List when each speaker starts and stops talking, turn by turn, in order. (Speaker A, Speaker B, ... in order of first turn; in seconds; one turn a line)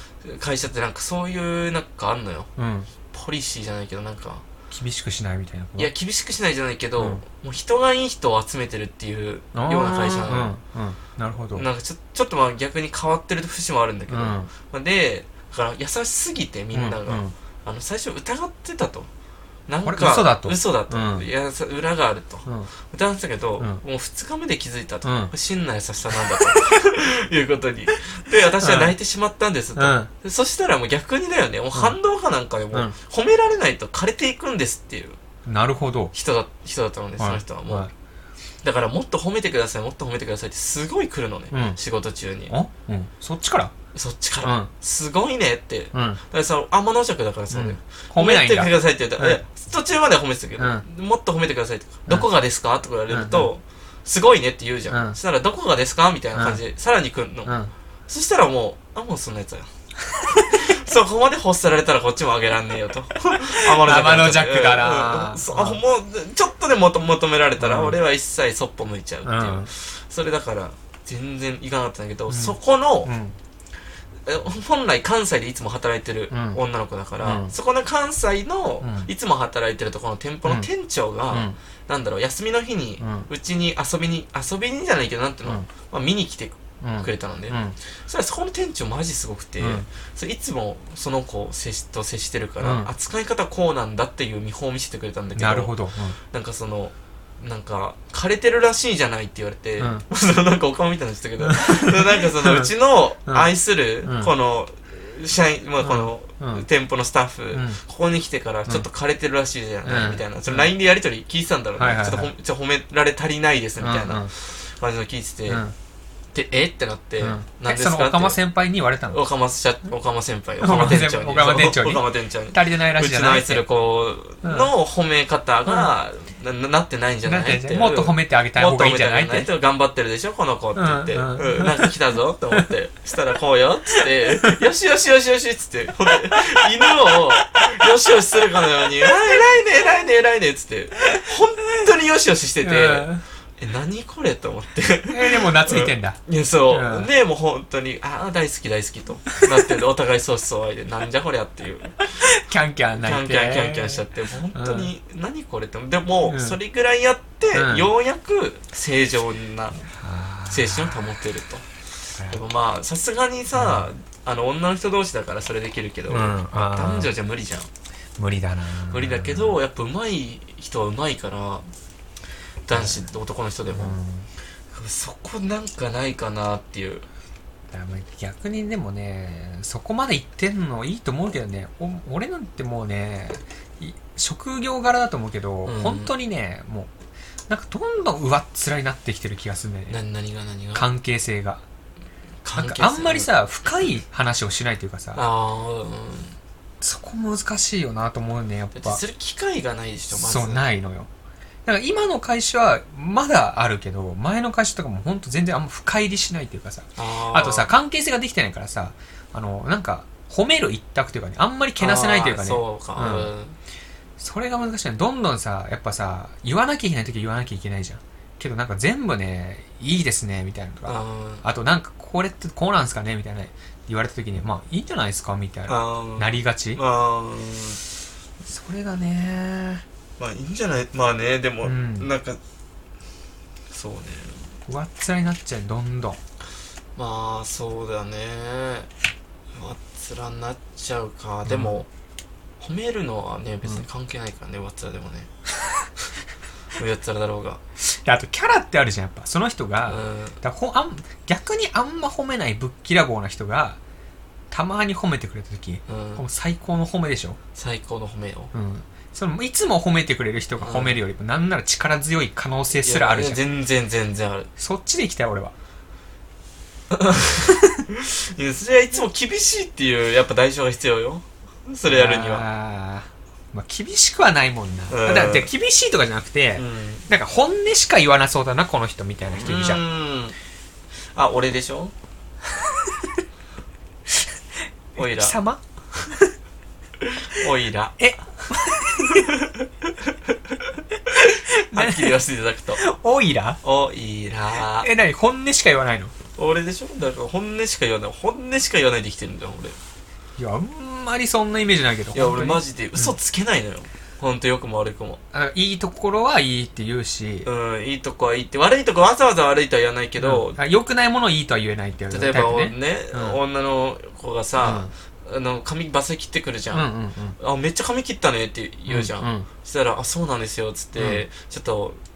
Speaker A: 0.2-2.5
Speaker B: 2.6-2.9
Speaker A: 3.1-4.4
Speaker B: 4.7-5.9
Speaker A: 5.8-10.5
Speaker B: 9.5-11.7
Speaker A: 11.5-19.1
Speaker B: 14.1-14.5
Speaker B: 16.7-17.3
Speaker A: 19.7-35.2
Speaker B: 19.8-21.3
Speaker B: 22.4-22.7
Speaker B: 25.0-25.3
Speaker B: 26.3-26.6
Speaker B: 28.6-28.9
Speaker B: 29.8-30.1
Speaker B: 35.5-36.1
Speaker A: 36.1-37.9
Speaker B: 37.2-37.9
Speaker A: 38.6-42.5
Speaker B: 41.5-41.8
Speaker B: 42.5-43.7
Speaker A: 43.9-59.7
Speaker B: 44.4-44.7
Speaker B: 45.9-46.2
Speaker B: 47.5-49.4
Speaker B: 50.6-50.8
Speaker B: 53.1-53.5
Speaker B: 54.9-55.2
Speaker B: 56.3-56.6
Speaker B: 57.5-57.7
Speaker B: 60.1-60.7
Speaker A: 60.5-73.1
Speaker B: 63.5-65.8
Speaker B: 67.6-68.0
Speaker B: 69.2-69.7
Speaker B: 72.3-73.3
Speaker A: 74.2-95.7
Speaker B: 76.3-76.6
Speaker B: 77.2-77.5
Speaker B: 78.8-79.1
Speaker B: 81.3-81.6
Speaker B: 83.0-83.3
Speaker B: 86.8-87.8
Speaker B: 89.6-89.8
Speaker B: 92.6-92.9
Speaker B: 95.3-96.2
Speaker A: 96.3-115.6
Speaker B: 99.8-100.0
Speaker B: 101.4-102.7
Speaker B: 104.0-104.3
Speaker B: 105.8-106.7
Speaker B: 107.5-107.8
Speaker B: 109.8-110.7
Speaker B: 111.8-112.3
Speaker B: 113.8-114.3
Speaker B: 115.5-115.7
Speaker A: 116.3-118.4
Speaker B: 117.2-119.2
Speaker A: 119.1-152.0
Speaker B: 120.6-123.6
Speaker B: 124.4-124.7
Speaker B: 125.7-125.9
Speaker B: 127.2-129.5
Speaker B: 130.8-131.9
Speaker B: 137.1-137.7
Speaker B: 142.6-143.2
Speaker B: 145.1-146.2
Speaker B: 146.7-147.1
Speaker B: 152.1-154.9
Speaker A: 153.0-159.9
Speaker B: 156.2-156.6
Speaker B: 157.5-157.9
Speaker B: 159.9-161.0
Speaker A: 160.5-161.7
Speaker B: 162.2-162.4
Speaker A: 162.2-167.7
Speaker B: 163.5-163.9
Speaker B: 166.1-167.1
Speaker B: 168.2-169.6
Speaker A: 168.9-171.7
Speaker A: 172.7-173.9
Speaker B: 172.7-173.1
Speaker B: 173.7-174.3
Speaker A: 174.7-177.1
Speaker B: 177.7-186.9
Speaker A: 185.6-186.1
Speaker B: 187.5-190.0
Speaker A: 189.9-190.9
Speaker B: 190.7-191.6
Speaker A: 192.4-193.3
Speaker B: 192.6-195.2
Speaker A: 195.1-196.4
Speaker B: 196.8-199.0
Speaker A: 198.7-200.6
Speaker B: 200.1-201.1
Speaker B: 201.7-213.3
Speaker A: 207.0-207.7
Speaker A: 211.8-213.6
Speaker B: 214.2-226.8
Speaker A: 220.8-221.4
Speaker A: 225.7-227.8
Speaker B: 228.4-229.8
Speaker A: 230.2-232.4
Speaker B: 231.6-232.1
Speaker A: 233.7-234.4
Speaker B: 234.7-236.2
Speaker A: 236.9-238.9
Speaker A: 239.5-241.9
Speaker B: 241.4-241.8
Speaker A: 242.6-245.3
Speaker A: 246.7-247.6
Speaker B: 247.8-253.8
Speaker A: 249.9-250.4
Speaker B: 254.5-257.4
Speaker A: 255.9-256.2
Speaker A: 257.5-258.5
Speaker B: 258.5-263.4
Speaker A: 260.6-261.0
Speaker A: 262.7-264.5
Speaker B: 264.6-265.5
Speaker A: 266.9-272.5
Speaker B: 271.9-279.8
Speaker A: 274.9-275.5
Speaker A: 276.6-277.1
Speaker A: 279.4-280.3
Speaker A: 281.1-281.9
Speaker B: 282.5-283.2
Speaker B: 284.9-286.3
Speaker A: 285.0-285.4
Speaker A: 287.0-288.0
Speaker B: 288.0-289.3
Speaker A: 289.0-290.3
Speaker B: 291.1-292.2
Speaker A: 291.3-292.8
Speaker B: 292.8-293.6
Speaker A: 293.6-294.9
Speaker B: 294.8-296.1
Speaker A: 296.4-299.8
Speaker B: 300.4-303.1
Speaker A: 302.1-305.2
Speaker B: 305.3-307.5
Speaker A: 307.4-310.6
Speaker B: 310.2-313.4
Speaker A: 312.1-322.0
Speaker B: 314.6-314.9
Speaker B: 316.7-317.4
Speaker B: 318.9-319.5
Speaker B: 321.0-321.2